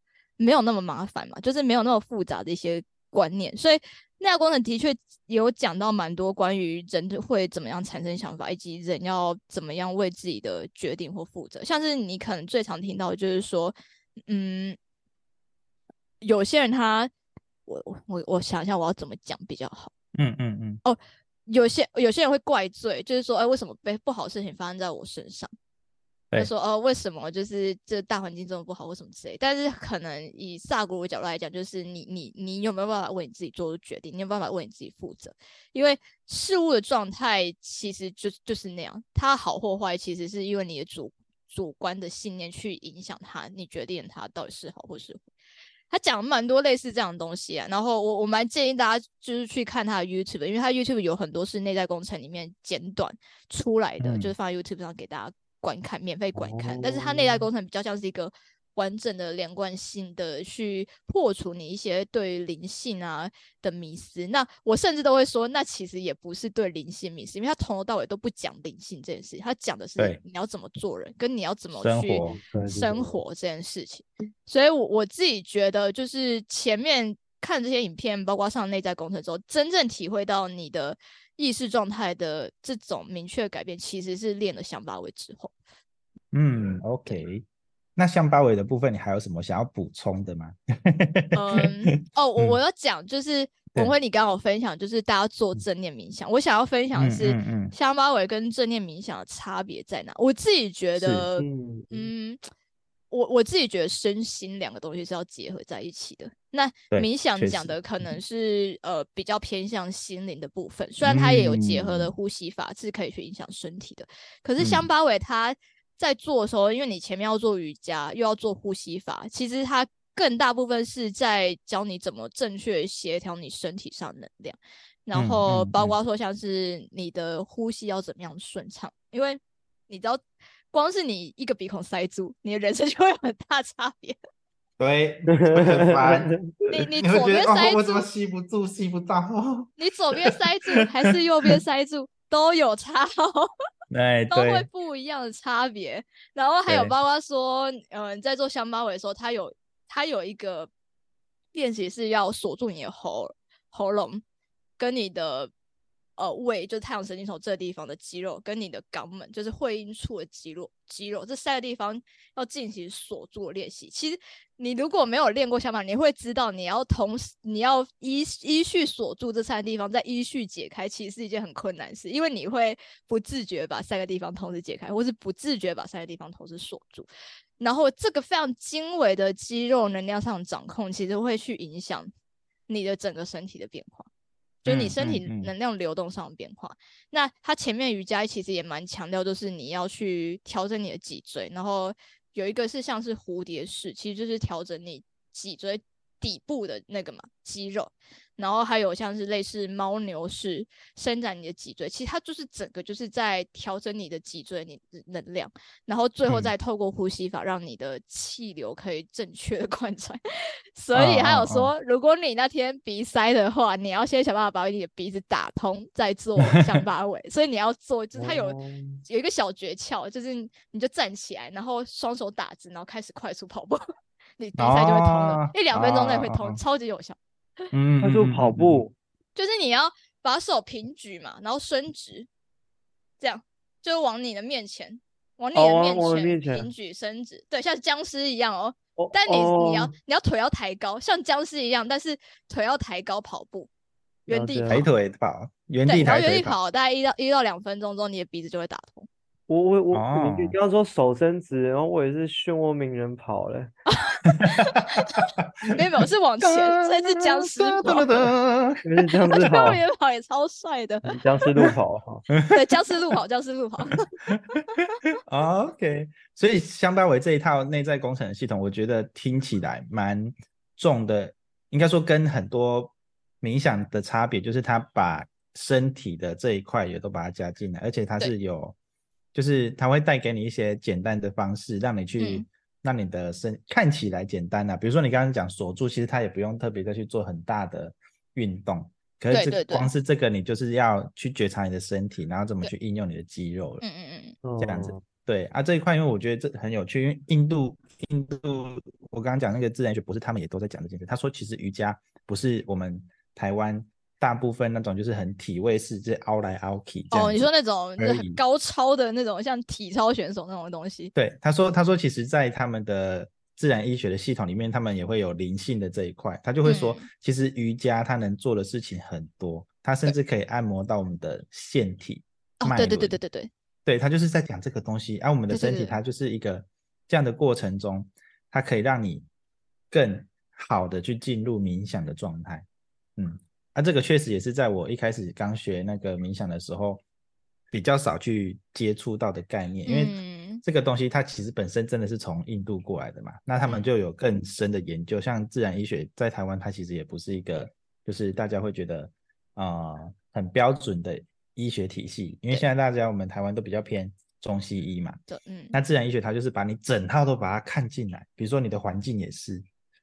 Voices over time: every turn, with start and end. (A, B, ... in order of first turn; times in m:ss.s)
0:00.4-0:13.7 A
0:14.3-0:14.8 A
0:16.2-0:17.1 A
0:17.7-0:19.9 A
0:20.1-0:20.8 B
0:20.8-0:25.5 A
0:26.4-0:45.3 A
0:45.9-1:25.5 A
0:54.0-0:54.3 B
0:56.3-0:57.5 C
1:11.8-1:12.4 B
1:12.2-1:13.2 C
1:26.3-1:27.4 B
1:28.0-1:32.6 B
1:31.3-1:42.4 A
1:36.9-1:37.7 B
1:41.0-1:41.3 B
1:41.4-1:42.1 C
1:43.1-2:10.2 A
1:46.9-1:48.1 B
1:51.0-1:52.1 B
1:54.6-1:54.9 B
2:05.1-2:05.9 B
2:10.7-2:14.2 A
2:14.8-2:20.3 B
2:15.3-2:16.4 C
2:16.7-2:18.0 A
2:19.8-2:23.5 A
2:23.9-2:24.7 B
2:24.3-2:30.7 A
2:26.7-2:26.9 B
2:31.5-2:34.2 A
2:34.8-2:35.5 A
2:36.2-2:57.1 A
2:57.6-3:02.1 A
3:02.7-3:04.1 A
3:04.6-3:30.2 A
3:04.7-3:05.5 B
3:30.8-3:43.8 A
3:30.9-3:31.7 B
3:36.4-3:36.8 B
3:38.1-3:39.0 C
3:44.4-3:47.2 A
3:44.6-3:46.6 B
3:47.7-3:48.8 B
3:48.0-3:48.9 C
3:49.4-3:52.3 A
3:53.2-4:03.7 A
3:55.5-3:56.7 C
3:59.0-3:59.9 C
4:04.3-4:04.9 A
4:04.3-4:04.8 C
4:04.7-4:06.6 B
4:05.9-4:09.1 A
4:09.5-4:13.7 C
4:09.9-4:10.6 B
4:13.9-4:18.3 A
4:14.2-4:15.5 B
4:16.4-4:18.8 B
4:18.8-4:19.8 C
4:19.3-4:21.2 A
4:21.1-4:22.2 C
4:22.3-4:22.6 B
4:22.5-4:24.1 A
4:24.3-4:38.7 B
4:39.3-4:53.8 B
4:42.2-4:42.4 A
4:49.3-4:49.9 A
4:53.8-4:54.4 A
4:54.4-4:55.0 C
4:54.6-5:08.4 B
5:07.1-5:11.1 A
5:11.1-5:23.2 B
5:16.6-5:17.0 A
5:22.6-5:23.5 A
5:23.8-5:29.2 B
5:25.5-5:26.0 A
5:29.9-5:32.6 B
5:33.2-5:37.0 B
5:37.7-5:55.2 B
5:39.9-5:40.6 A
5:43.6-5:43.9 A
5:55.3-5:55.7 A
5:55.7-5:59.6 B